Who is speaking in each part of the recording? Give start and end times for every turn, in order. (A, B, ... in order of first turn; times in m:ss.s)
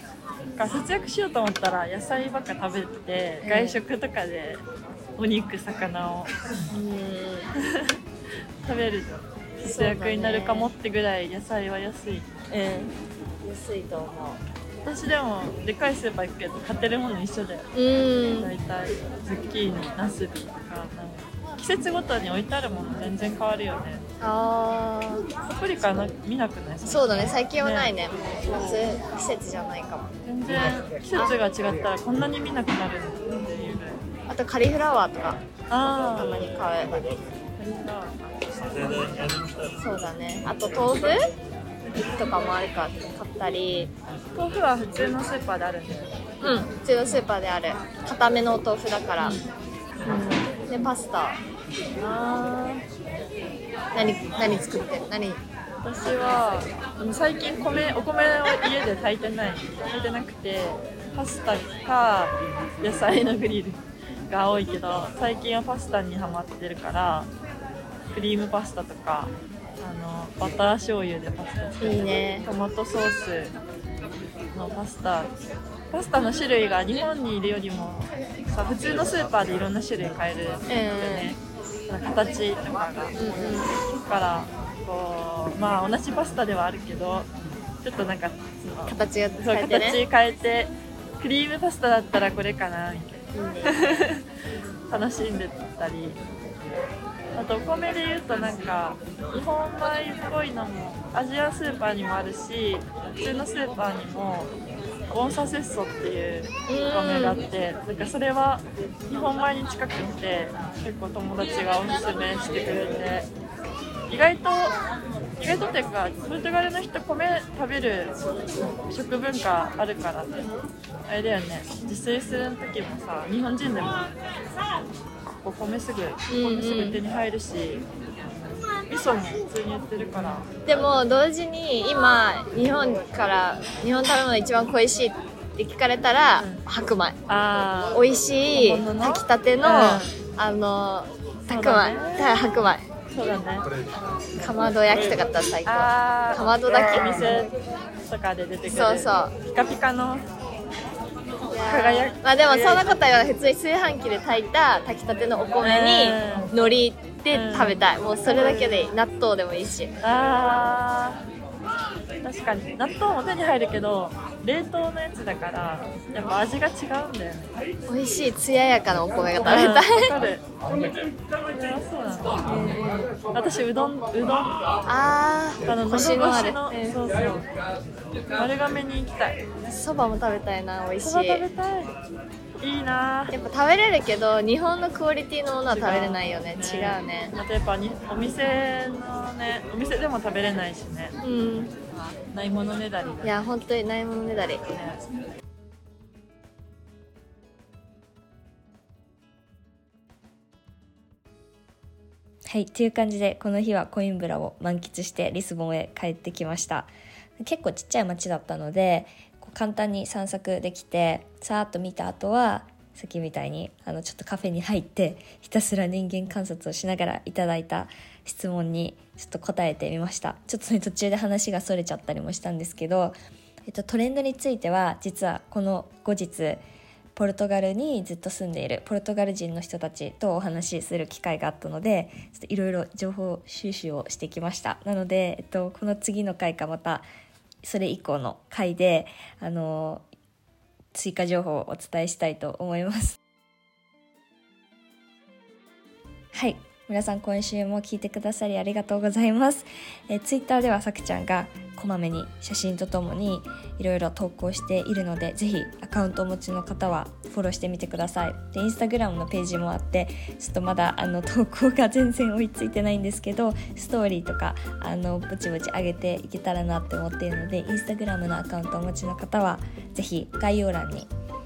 0:00.6-0:04.6 A
0:03.4-0:03.8 B
0:05.2-0:06.3 A
0:06.7-0:07.5 B
0:07.6-0:08.0 A
0:08.6-0:12.8 A
0:09.6-0:10.7 B
0:12.5-0:12.9 B
0:13.4-0:14.4 B
0:14.8-0:17.7 A
0:17.7-0:18.5 B
0:18.4-0:24.1 A
0:24.2-0:25.3 B
0:25.5-0:28.8 A
0:26.8-0:30.1 B
0:30.2-0:34.0 A
0:34.3-0:35.4 B
0:35.7-0:36.4 A
0:36.1-0:37.0 B
0:37.6-0:39.5 A
0:39.8-0:41.2 B
0:42.1-0:43.9 B
0:44.3-0:46.2 A
0:46.4-0:49.4 B
0:49.2-0:49.5 A
0:50.0-0:51.4 B
0:52.0-0:52.8 B
0:53.9-0:55.4 B
0:55.8-1:07.3 A
1:08.1-1:13.5 A
1:11.8-1:12.5 B
1:14.5-1:15.3 A
1:15.9-1:27.3 A
1:20.7-1:21.3 B
1:23.2-1:23.7 B
1:27.8-1:34.2 A
1:28.9-1:30.0 B
1:33.3-1:34.1 B
1:34.9-1:36.2 A
1:37.3-1:44.5 A
1:45.1-1:53.3 A
1:46.7-1:47.4 B
1:54.1-1:54.7 A
1:55.4-2:00.4 A
2:01.1-2:04.1 A
2:05.3-2:07.8 A
2:06.3-2:07.0 B
2:08.9-2:10.5 A
2:10.6-2:17.2 B
2:16.4-2:16.6 A
2:17.3-2:20.1 A
2:17.9-2:22.9 B
2:21.5-2:22.4 A
2:23.1-2:23.7 A
2:24.4-2:27.4 B
2:25.6-2:27.5 A
2:28.1-2:30.3 A
2:28.7-2:29.3 B
2:31.5-2:39.9 B
2:31.6-2:33.0 A
2:35.6-2:36.5 A
2:37.3-2:38.9 A
2:40.0-2:41.2 A
2:42.2-2:47.5 A
2:47.9-2:50.1 B
2:49.4-2:50.4 A
2:51.5-2:54.6 A
2:52.4-2:53.2 B
2:54.9-2:57.0 B
2:55.7-2:57.5 A
2:58.3-2:59.4 A
2:59.7-3:01.4 B
3:01.0-3:01.9 A
3:02.6-3:03.3 A
3:03.3-3:07.3 B
3:05.7-3:11.1 A
3:11.2-3:11.8 B
3:12.0-3:13.4 A
3:13.2-3:15.0 B
3:22.5-3:46.6 C
3:47.1-3:57.0 C
3:57.6-4:00.1 C
4:00.9-4:03.2 C
4:06.3-4:31.1 C